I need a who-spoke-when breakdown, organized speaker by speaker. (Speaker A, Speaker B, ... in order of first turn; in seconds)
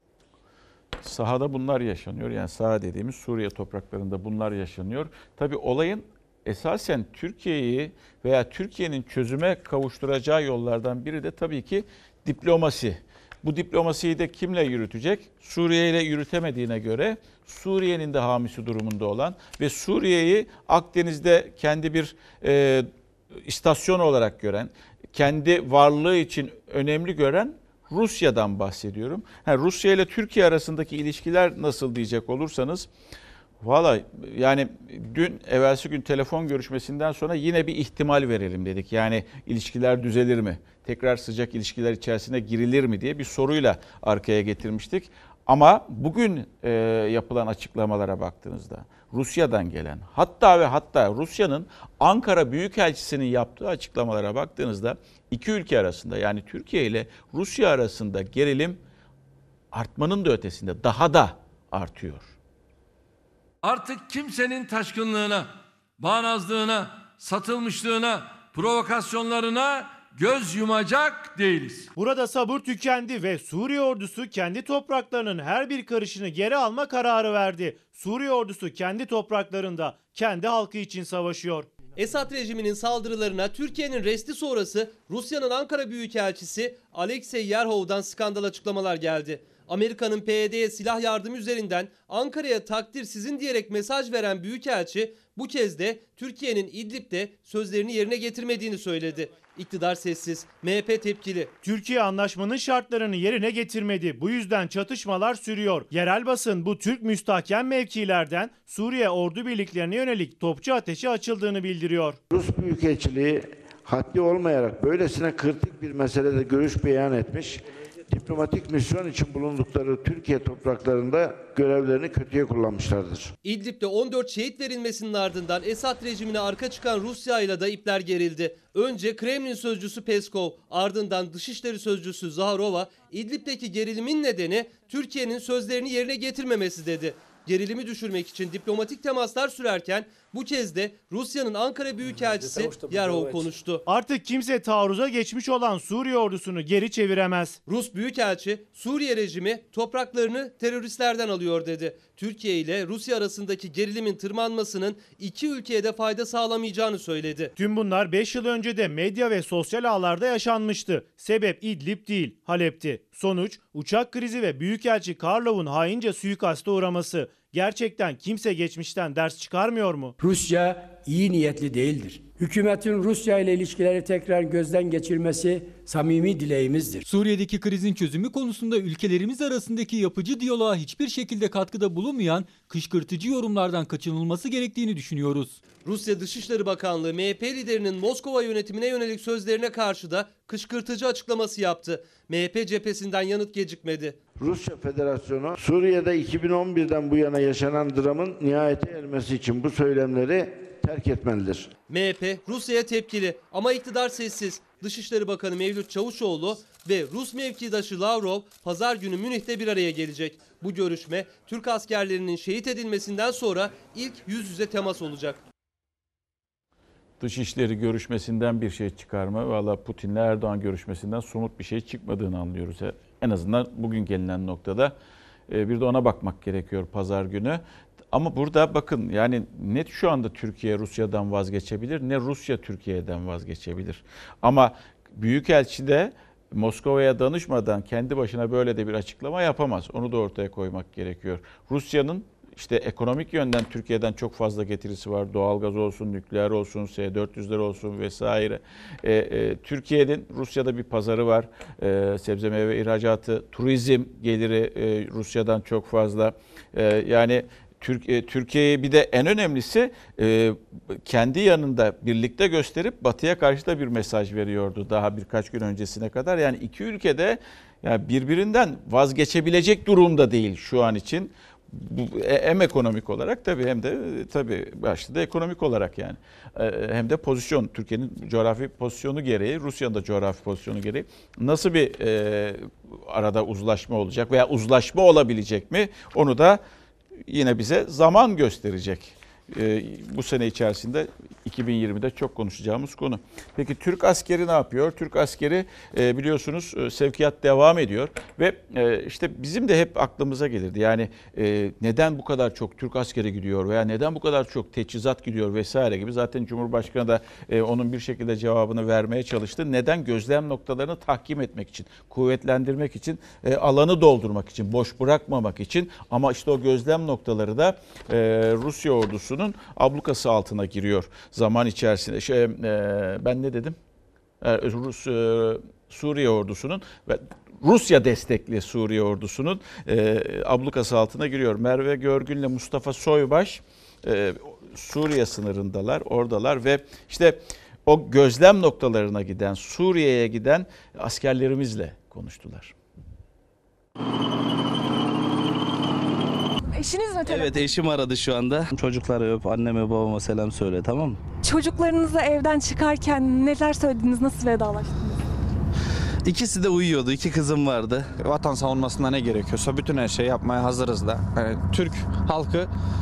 Speaker A: 1.0-22.9, 23.4-32.9, 33.6-58.8, 59.7-62.3, 217.2-224.9, 225.5-286.6, 287.3-323.8, 324.4-342.7
Speaker B: 63.6-71.9
Speaker C: 72.0-81.7, 101.6-112.2, 143.9-147.6, 157.6-170.1
Speaker D: 82.0-101.5, 123.4-143.8, 147.7-157.5, 185.8-194.2, 201.9-215.4
Speaker E: 112.3-123.3, 194.4-201.7
Speaker F: 170.2-177.0
Speaker G: 177.1-185.6
Speaker H: 346.7-347.6, 351.4-355.2
Speaker I: 347.3-351.2, 356.2-358.1
Speaker J: 358.2-362.7